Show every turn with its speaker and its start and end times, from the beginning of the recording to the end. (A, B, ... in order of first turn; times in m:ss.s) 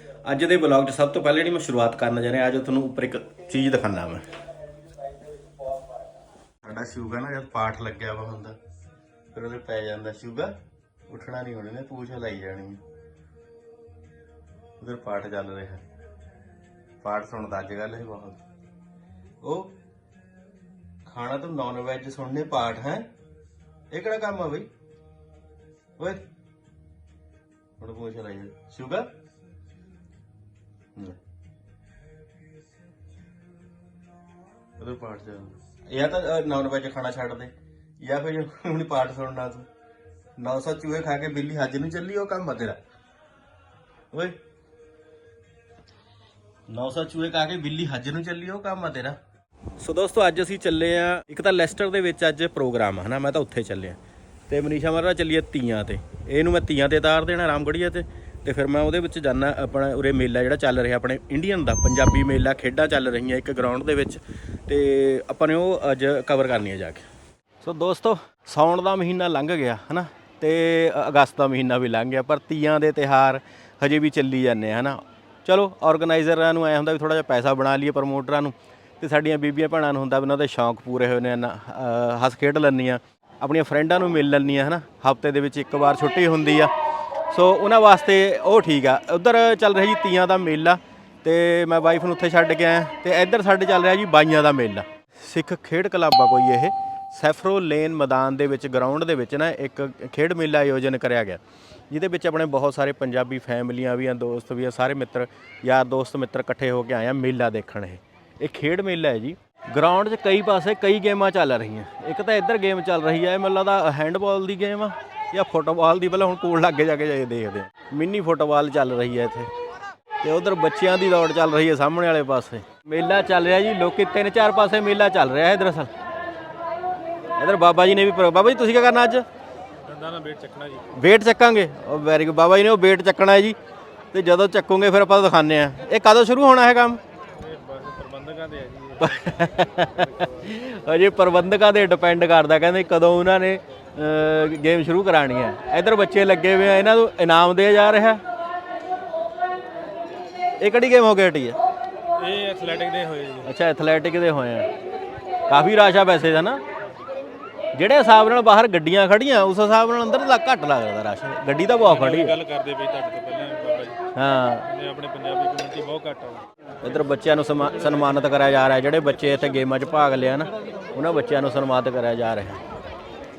0:00.2-0:04.3 A
0:06.6-0:08.6 A
0:09.3-0:10.6 A
0:11.1-0:12.8 A
0:14.8-0:15.8 A
0:17.0-0:18.4 A
0:19.4-0:19.7 A
0:21.1-0:23.1 A
0:23.9-0:24.7 A
0:26.0-0:26.2 A
0:27.8-0:29.1 A
0:34.8-0:39.7 A
0:40.4-0:42.8 A
0:46.7-0:49.2 A
0:49.8-0:54.0 A
0:54.5-1:07.0 A
1:07.6-1:26.7 A
1:27.3-1:59.5 A
2:00.2-2:05.9 A
2:07.4-2:09.2 A
2:09.8-2:10.8 B
2:10.9-2:13.6 A
2:14.1-2:17.0 A
2:17.4-2:19.0 B
2:19.0-2:28.2 A
2:30.6-2:31.6 A
2:32.2-2:33.5 B
2:33.4-2:34.7 A
2:35.5-2:36.6 A
2:37.8-2:42.4 A
2:41.9-2:44.0 B
2:44.2-2:44.7 A
2:44.7-2:46.4 B
2:46.8-2:52.6 A